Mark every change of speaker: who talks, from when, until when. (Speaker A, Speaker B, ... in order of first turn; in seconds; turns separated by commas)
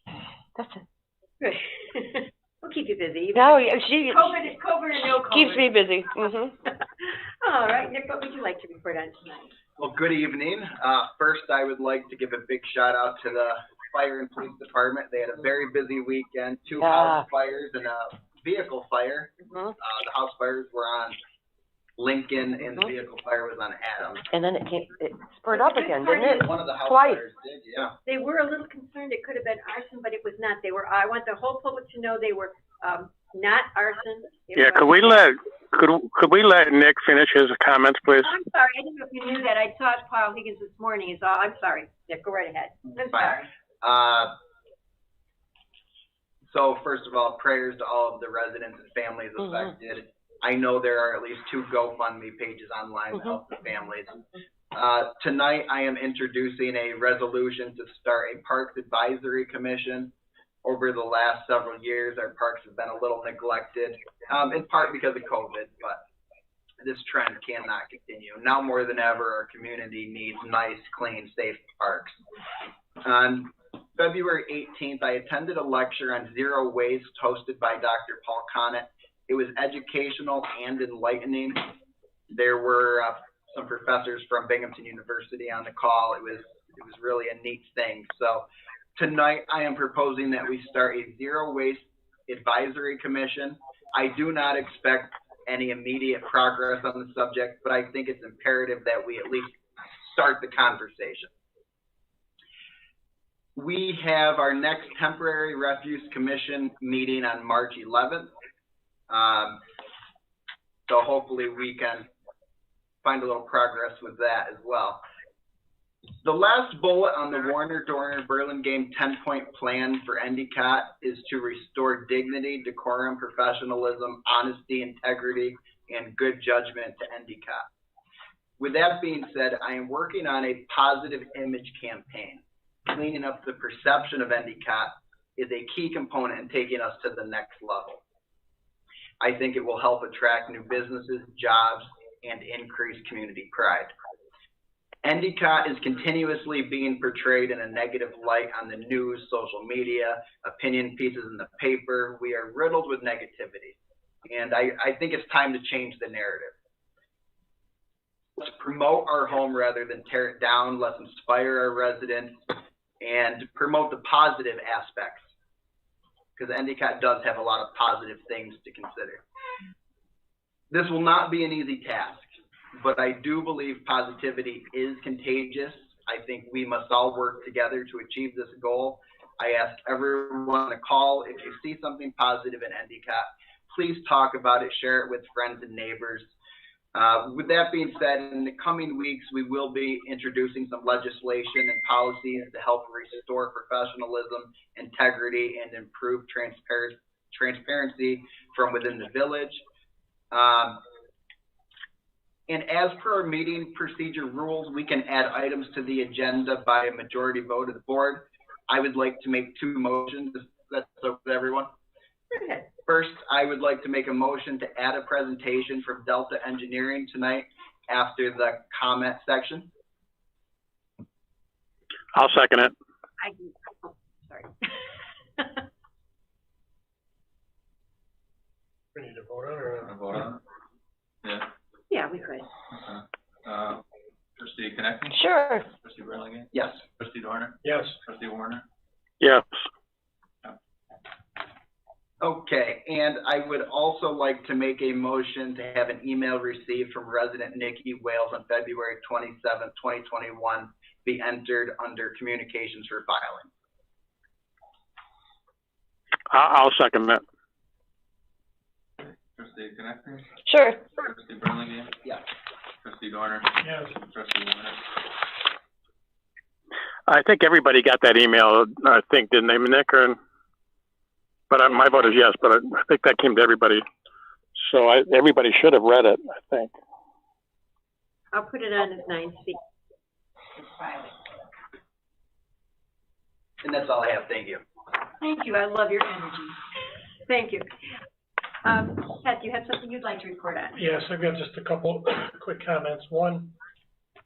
Speaker A: 0.5-0.8, Speaker B: 1.4-5.7, Speaker A: 3.3-4.3, Speaker A: 5.3-6.5, Speaker B: 6.3-9.5, Speaker C: 9.8-21.2, Speaker A: 16.8-17.2, Speaker C: 22.0-24.2, Speaker A: 24.3-27.2, Speaker B: 25.6-26.4, Speaker C: 26.3-27.9, Speaker B: 28.0-35.2, Speaker D: 34.5-38.3, Speaker B: 38.2-43.5, Speaker C: 42.9-44.3, Speaker C: 46.5-60.1, Speaker C: 60.6-66.0, Speaker C: 66.8-72.2, Speaker C: 73.0-81.7, Speaker C: 82.3-101.3, Speaker C: 103.5-108.3, Speaker C: 109.1-109.6, Speaker C: 110.9-112.1, Speaker C: 113.0-115.0, Speaker C: 116.2-127.7, Speaker C: 128.6-138.0, Speaker C: 139.2-143.9, Speaker C: 145.0-156.5, Speaker C: 158.4-165.3, Speaker C: 166.3-169.2, Speaker C: 170.7-186.3, Speaker C: 186.9-199.6, Speaker C: 200.3-200.8, Speaker C: 202.5-211.7, Speaker B: 212.3-212.7, Speaker C: 212.8-219.7, Speaker D: 222.1-222.7, Speaker B: 223.2-225.6, Speaker E: 228.9-229.9, Speaker F: 229.8-230.4, Speaker F: 231.2-231.5, Speaker B: 231.9-232.4, Speaker F: 232.7-233.8, Speaker F: 234.4-238.6, Speaker A: 235.1-235.6, Speaker C: 236.5-236.8, Speaker E: 237.6-237.9, Speaker C: 242.2-253.5, Speaker D: 256.3-257.2, Speaker F: 259.0-260.3, Speaker A: 260.4-260.8, Speaker F: 261.0-262.0, Speaker F: 262.8-265.0, Speaker E: 263.6-263.9, Speaker D: 267.1-270.2, Speaker D: 271.5-273.8, Speaker D: 274.6-276.7, Speaker B: 278.3-279.6, Speaker B: 280.6-281.1, Speaker C: 283.6-284.6, Speaker B: 285.2-286.6, Speaker B: 287.3-287.7, Speaker B: 288.6-290.7, Speaker E: 290.8-293.5